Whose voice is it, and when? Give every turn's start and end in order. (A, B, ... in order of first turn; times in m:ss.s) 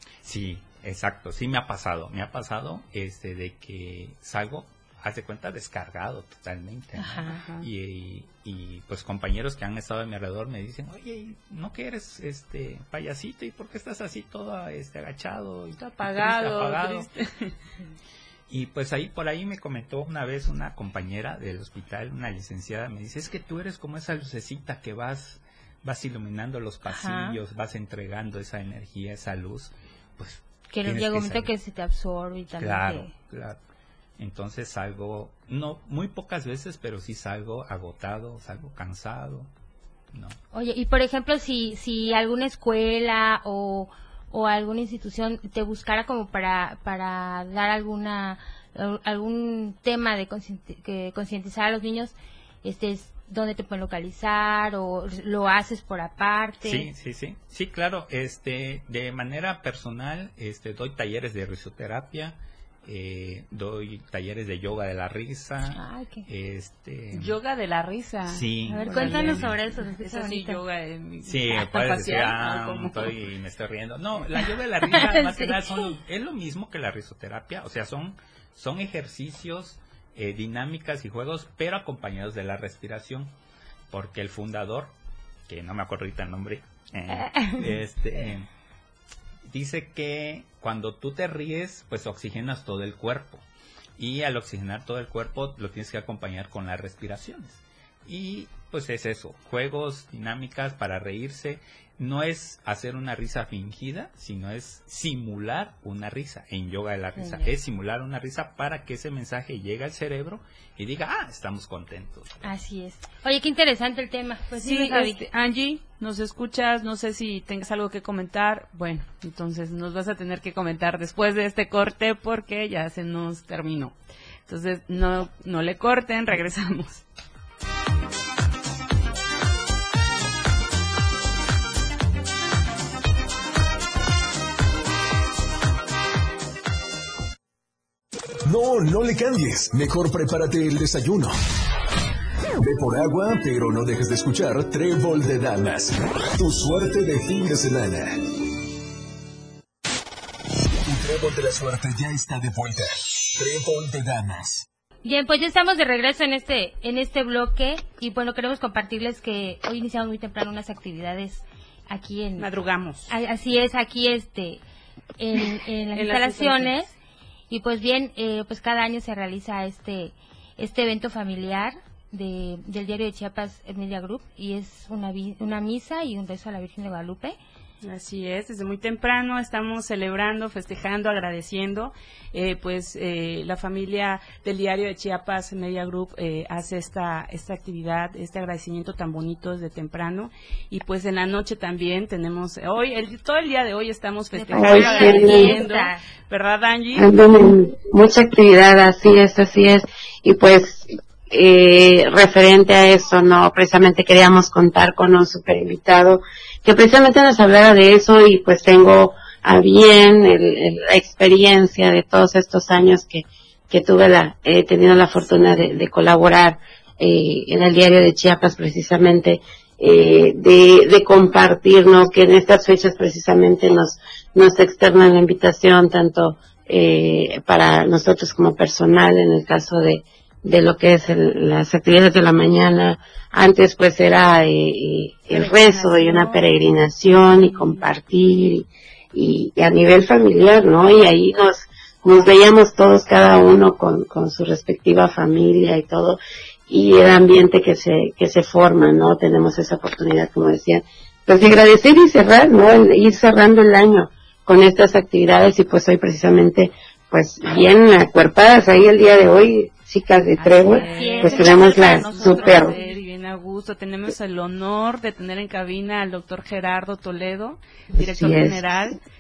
0:00.2-0:17.1 A
0:07.0-0:07.3 B
0:07.1-0:07.7 C
0:15.8-0:17.5 C
0:18.5-0:31.5 A
0:26.8-0:27.4 B
0:30.7-0:33.1 B
0:32.6-0:33.6 A
0:34.2-0:39.5 A
0:40.1-0:40.4 A
0:40.5-0:56.9 B
0:56.6-1:07.4 A
1:05.7-1:06.3 B
1:07.1-1:13.1 C
1:08.2-1:09.5 A
1:08.7-1:10.6 B
1:11.2-1:23.3 A
1:14.9-1:15.9 B
1:23.9-1:24.9 A
1:25.5-1:28.5 A
1:27.1-1:27.8 B
1:29.5-1:33.4 A
1:34.0-1:52.4 A
1:52.4-1:55.2 B
1:54.6-2:07.0 C
2:18.4-2:21.4 D
2:22.6-2:28.2 D
2:30.8-2:34.6 D
2:35.0-2:42.5 B
2:42.4-2:43.1 C
2:43.1-2:44.6 B
2:45.2-2:46.9 B
2:45.9-2:46.8 C
2:47.5-2:57.4 B
2:57.8-3:17.0 C
3:14.3-3:16.0 B
3:14.5-3:15.6 E
3:16.9-4:22.7 E
3:55.3-3:56.4 C
3:57.2-3:57.8 C
4:20.4-4:29.0 C
4:20.7-4:22.9 B
4:27.9-4:28.6 E